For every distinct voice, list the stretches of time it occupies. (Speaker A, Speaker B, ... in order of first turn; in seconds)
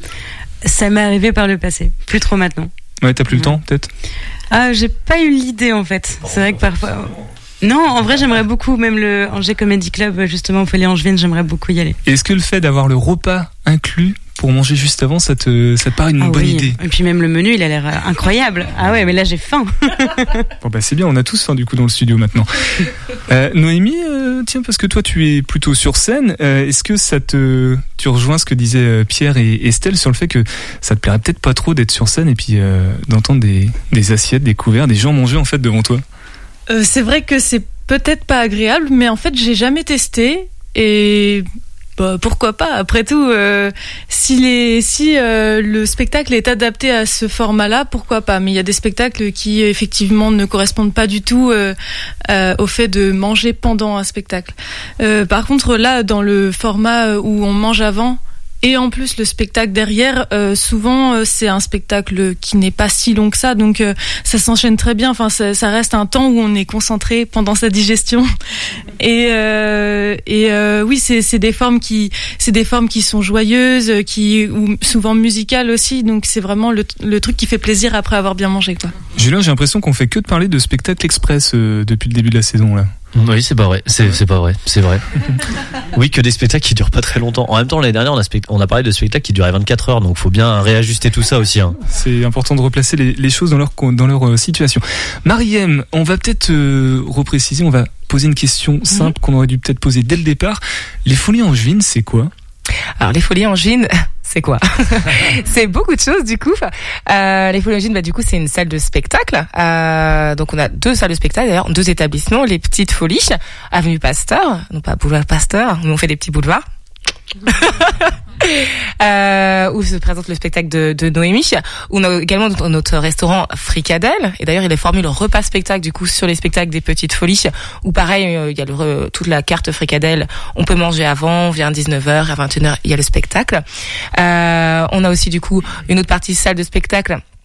Speaker A: 0.6-2.7, 3.3-3.5, 4.5-12.0, 16.2-20.5
Speaker B: 3.0-3.9, 12.0-16.8, 20.6-22.7, 23.3-36.0, 79.2-82.9, 91.9-102.3
Speaker C: 36.7-41.4, 42.0-51.7, 52.3-68.3, 69.0-78.9
Speaker D: 83.1-85.0, 85.9-91.8
Speaker E: 103.0-116.6, 117.5-133.6, 134.1-137.2